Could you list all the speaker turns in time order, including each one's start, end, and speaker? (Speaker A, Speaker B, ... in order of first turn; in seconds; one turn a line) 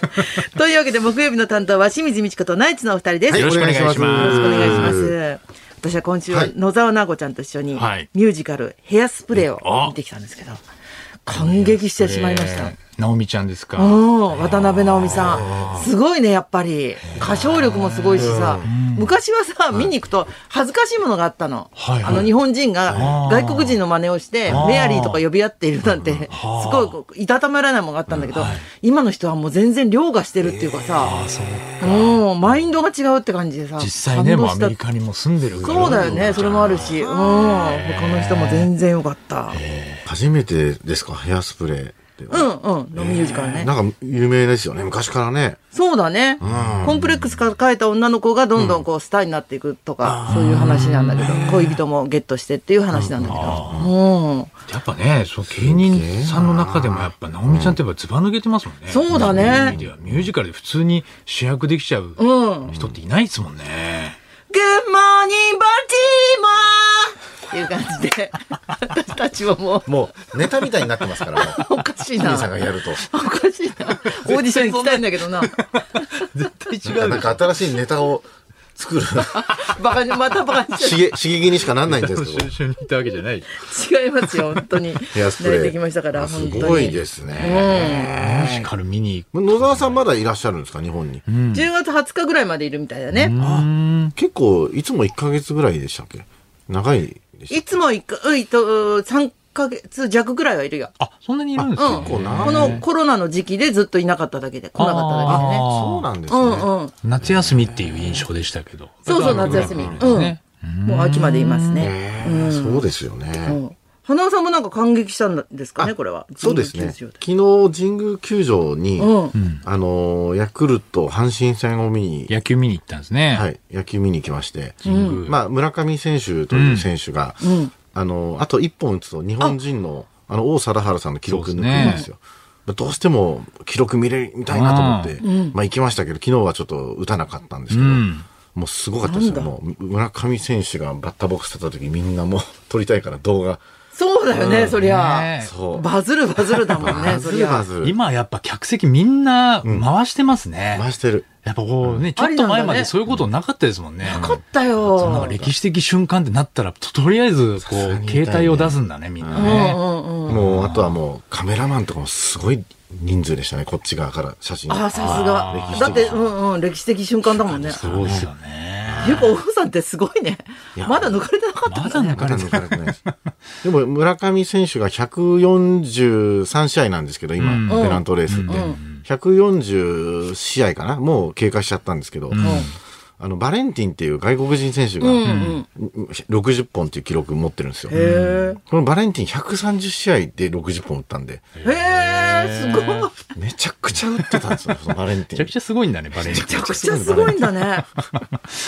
Speaker A: 0.1-10.6
Speaker B: 3.3-5.2
Speaker C: 3.3-5.0
Speaker C: 7.8-8.1
Speaker C: 9.6-10.0
Speaker A: 11.3-12.8
Speaker C: 11.3-15.9
Speaker A: 13.8-31.1
Speaker B: 15.1-15.9
Speaker C: 17.1-19.2
Speaker B: 18.2-18.8
Speaker C: 21.8-22.3
Speaker B: 22.1-22.3
Speaker B: 22.9-23.2
Speaker C: 22.9-23.8
Speaker B: 24.5-24.9
Speaker C: 24.5-25.2
Speaker B: 25.9-26.3
Speaker C: 26.3-26.9
Speaker C: 28.3-28.6
Speaker C: 31.0-32.2
Speaker A: 31.8-34.8
Speaker C: 33.8-38.7
Speaker B: 35.6-37.0
Speaker A: 35.6-39.6
Speaker C: 39.5-40.1
Speaker B: 40.0-45.6
Speaker A: 42.3-43.7
Speaker A: 45.7-54.5
Speaker B: 46.4-47.0
Speaker C: 46.4-47.2
Speaker B: 48.6-48.8
Speaker B: 50.0-51.8
Speaker C: 50.3-51.5
Speaker B: 52.9-53.9
Speaker C: 53.2-53.9
Speaker C: 54.7-64.2
Speaker B: 55.5-57.8
Speaker A: 58.9-59.8
Speaker B: 59.1-60.3
Speaker A: 62.2-62.7
Speaker B: 62.7-63.0
Speaker A: 64.5-69.9
Speaker B: 69.9-71.6
Speaker A: 71.3-76.3
Speaker B: 72.2-73.0
Speaker C: 74.1-77.6
Speaker B: 76.8-79.6
Speaker A: 79.3-81.2
Speaker B: 80.8-82.5
Speaker C: 81.8-83.6
Speaker A: 83.5-88.1
Speaker B: 85.1-88.7
Speaker C: 88.1-90.0
Speaker B: 89.3-91.2
Speaker C: 91.3-91.7
Speaker A: 91.5-93.3
Speaker C: 93.1-94.1
Speaker B: 93.4-97.7
Speaker A: 97.5-100.9
Speaker C: 101.0-102.8
Speaker B: 101.6-102.8
Speaker A: 101.8-105.7
Speaker C: 104.8-106.1
Speaker B: 105.3-106.7
Speaker A: 106.3-106.9
Speaker C: 107.0-111.9
Speaker B: 107.2-108.2
Speaker A: 109.1-112.9
Speaker B: 109.1-110.3
Speaker B: 111.8-113.6
Speaker A: 113.4-117.2
Speaker B: 115.8-122.3
Speaker A: 119.0-119.3
Speaker C: 119.3-119.6
Speaker C: 122.3-123.5
Speaker B: 123.3-143.6
Speaker C: 124.8-125.4
Speaker A: 124.8-125.2
Speaker C: 126.5-126.9
Speaker A: 127.4-127.7
Speaker C: 131.3-132.1
Speaker A: 131.8-132.1
Speaker C: 134.5-135.2
Speaker A: 135.2-135.6
Speaker C: 137.7-138.3
Speaker A: 139.0-139.5
Speaker A: 143.9-147.7
Speaker B: 144.3-144.8
Speaker C: 144.7-145.6
Speaker B: 145.4-145.9
Speaker B: 146.8-148.0
Speaker C: 146.8-147.2
Speaker C: 147.8-150.9
Speaker B: 150.7-151.3
Speaker C: 151.4-154.3
Speaker A: 152.2-152.9
Speaker A: 154.0-155.3
Speaker B: 154.1-154.4
Speaker B: 154.9-155.6
Speaker C: 155.0-161.0
Speaker B: 157.6-159.7
Speaker A: 159.3-160.4
Speaker B: 160.3-166.2
Speaker A: 164.7-167.8
Speaker C: 164.9-166.3
Speaker B: 167.5-168.3
Speaker C: 167.6-169.3
Speaker B: 168.8-169.3
Speaker A: 169.0-172.2
Speaker B: 170.8-171.2
Speaker C: 171.7-173.2
Speaker B: 172.1-173.0
Speaker B: 173.6-182.7
Speaker C: 177.4-179.0
Speaker A: 177.7-178.8
Speaker C: 182.3-182.7
Speaker A: 182.4-182.7
Speaker B: 183.2-188.0
Speaker A: 185.0-185.7
Speaker C: 185.2-185.6
Speaker A: 187.9-188.6
Speaker C: 187.9-188.5
Speaker B: 188.6-191.5
Speaker C: 191.6-193.1
Speaker A: 191.6-193.2
Speaker B: 193.3-195.5
Speaker C: 194.2-194.6
Speaker C: 195.3-196.6
Speaker B: 196.2-197.6
Speaker A: 196.3-197.9